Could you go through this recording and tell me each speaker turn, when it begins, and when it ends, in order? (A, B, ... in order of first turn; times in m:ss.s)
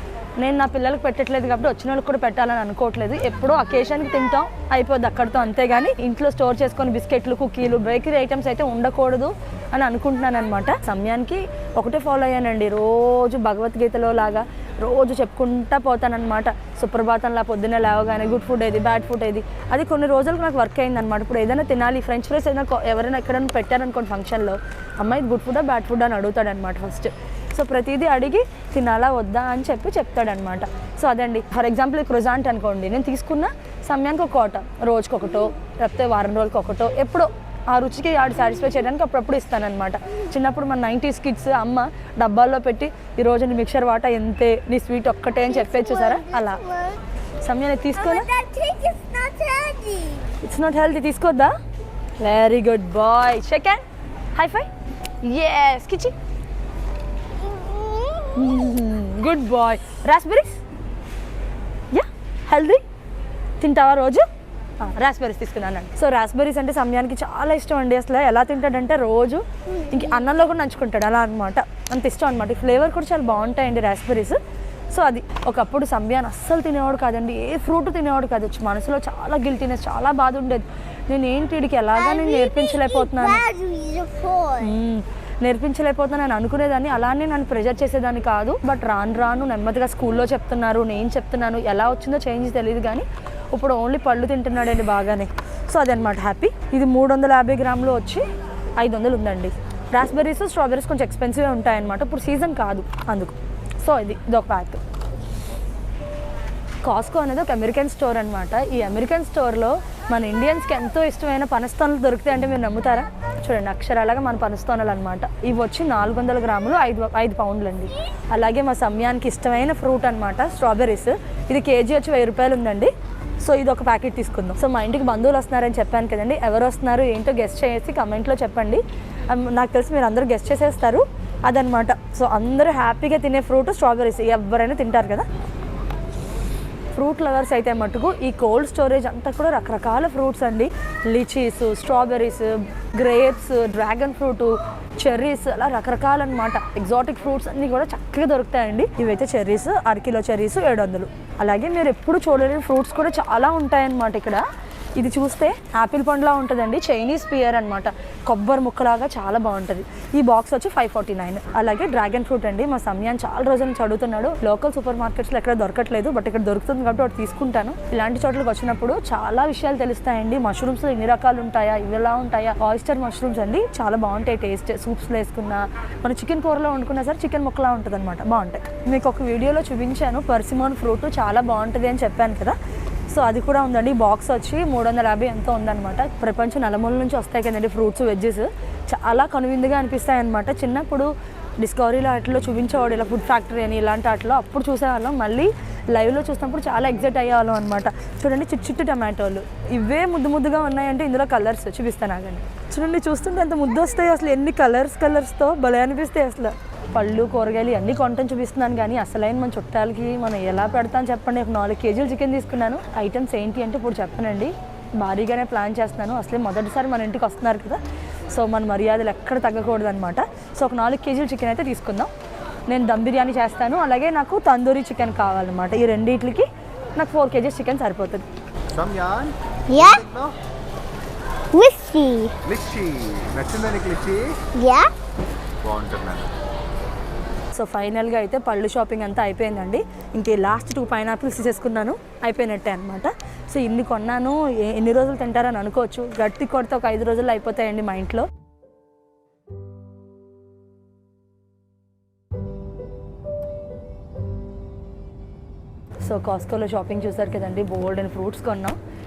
0:00.4-0:46.6 A
0:45.4-0:47.0 B
0:47.4-0:48.3 A
0:48.0-0:50.3 B
0:50.4-0:51.5 A
0:52.2-0:53.8 A
0:54.3-0:54.7 A
0:55.2-0:56.1 A
0:57.4-0:58.6 B
0:58.3-1:00.6 A
1:01.9-1:02.8 A
1:03.6-1:04.2 A
1:04.8-1:14.4 A
1:14.9-1:23.4 A
1:21.9-1:24.7 B
1:24.6-1:38.2 A
1:38.8-1:44.8 A
1:46.8-2:02.9 A
2:03.4-2:15.2 A
2:17.0-2:34.4 A
2:35.0-3:02.6 A
3:03.1-3:11.1 A
3:11.6-3:37.8 A
3:38.3-3:42.1 A
3:42.7-3:48.2 A
3:48.7-3:50.3 C
3:49.7-3:50.0 B
3:51.5-3:52.3 B
3:52.4-3:54.3 C
3:54.6-3:54.9 B
3:55.6-3:56.3 C
3:57.6-4:08.3 A
4:16.0-4:18.8 A